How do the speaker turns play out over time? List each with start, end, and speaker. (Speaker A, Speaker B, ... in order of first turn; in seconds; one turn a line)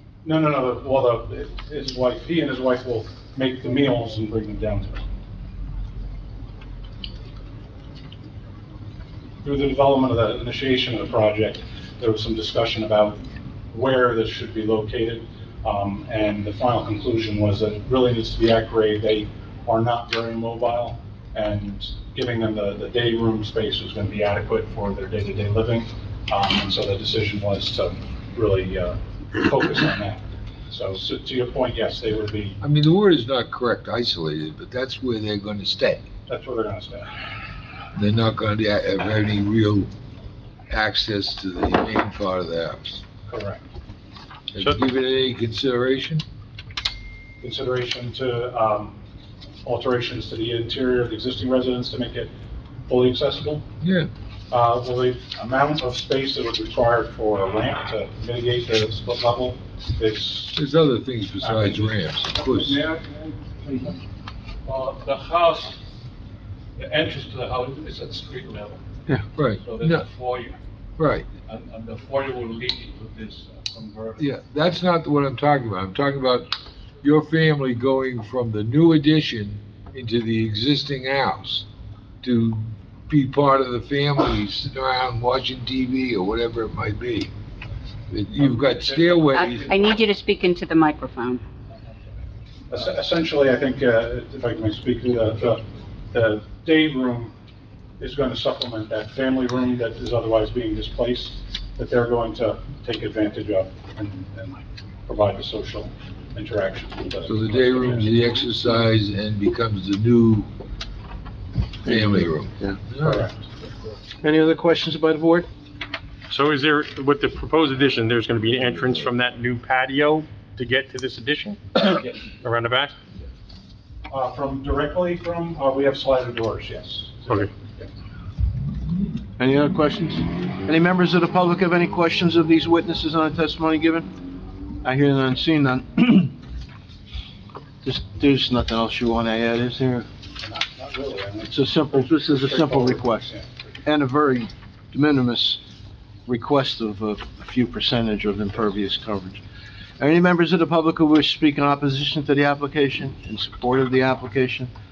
Speaker A: 0.2-5.1
Speaker A: 9.4-32.6
Speaker B: 32.6-36.0
Speaker A: 36.3-37.4
Speaker B: 38.0-39.9
Speaker B: 40.7-43.0
Speaker A: 43.3-43.7
Speaker B: 44.5-46.2
Speaker A: 47.4-49.0
Speaker A: 49.6-52.3
Speaker A: 52.9-53.6
Speaker B: 53.8-54.1
Speaker A: 54.5-60.6
Speaker B: 60.5-62.8
Speaker A: 61.4-61.9
Speaker C: 62.4-64.0
Speaker C: 64.7-65.8
Speaker C: 66.8-68.8
Speaker B: 69.4-70.1
Speaker C: 69.5-70.6
Speaker B: 71.0-71.3
Speaker C: 71.5-74.2
Speaker B: 74.2-81.7
Speaker B: 82.2-87.3
Speaker B: 88.1-89.7
Speaker A: 88.5-89.7
Speaker D: 89.3-91.4
Speaker A: 92.7-97.3
Speaker A: 98.0-108.1
Speaker B: 107.3-110.5
Speaker B: 111.8-113.3
Speaker E: 111.9-112.8
Speaker A: 113.0-113.4
Speaker E: 114.2-115.5
Speaker F: 116.3-123.0
Speaker A: 124.1-127.9
Speaker E: 129.4-134.1
Speaker E: 134.8-136.3
Speaker E: 137.8-140.1
Speaker A: 140.4-143.7
Speaker E: 141.5-143.3
Speaker E: 143.8-145.6
Speaker E: 146.3-149.4
Speaker E: 150.0-154.7